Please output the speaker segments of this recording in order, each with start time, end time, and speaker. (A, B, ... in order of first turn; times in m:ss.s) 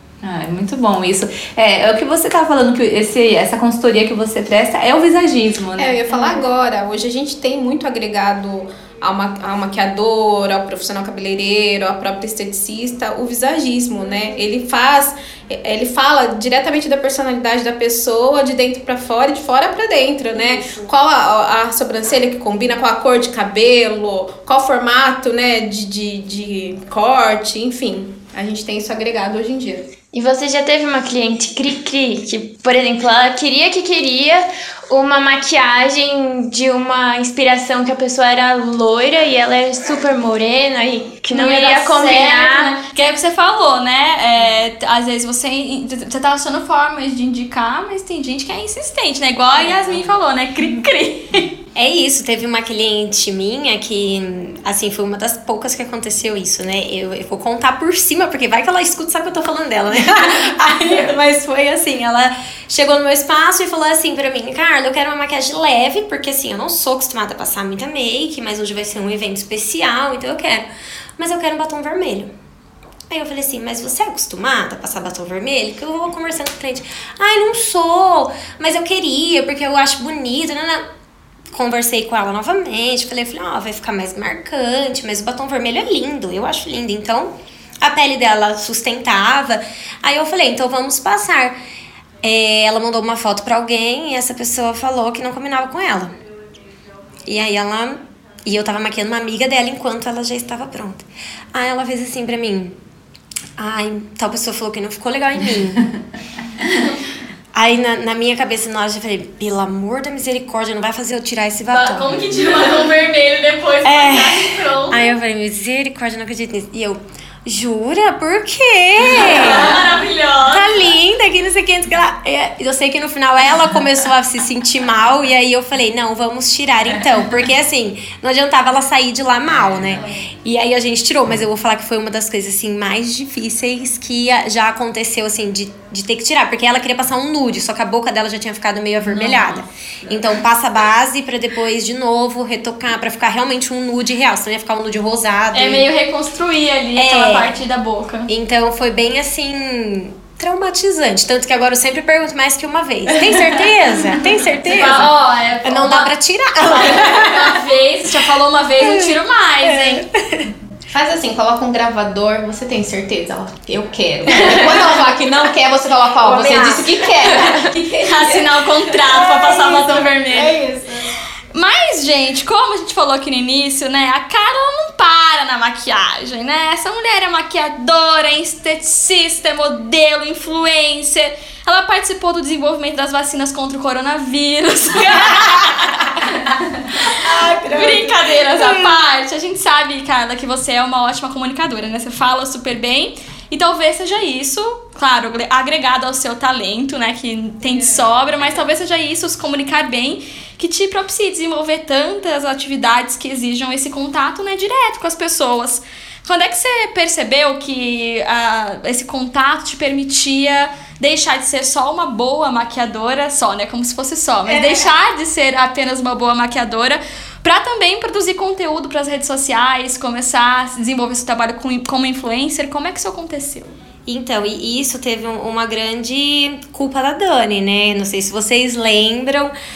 0:00.2-0:06.4 A
0:05.8-0:29.9 B
0:20.6-0:20.9 C
0:30.1-0:42.8 D
0:41.3-0:51.5 E
0:51.8-1:10.6 C
1:11.2-1:12.3 C
1:13.1-1:20.8 C
1:21.5-1:31.6 C
1:32.2-1:36.1 C
1:37.3-1:42.8 C
1:43.6-1:45.9 C
1:47.5-1:52.1 C
1:51.7-1:55.1 E
1:53.8-1:59.8 C
1:59.0-2:00.9 E
2:00.5-2:25.9 C
2:25.5-2:28.3 E
2:27.0-2:27.5 C
2:28.3-2:37.5 C
2:34.6-2:36.1 E
2:36.6-2:40.0 E
2:38.8-2:40.5 C
2:40.9-2:48.5 B
2:46.2-2:46.9 C
2:47.2-2:50.6 E
2:49.2-2:50.9 B
2:51.5-3:06.1 E
3:07.0-3:43.8 E
3:07.1-3:08.9 C
3:34.5-3:34.9 B
3:44.1-3:49.5 C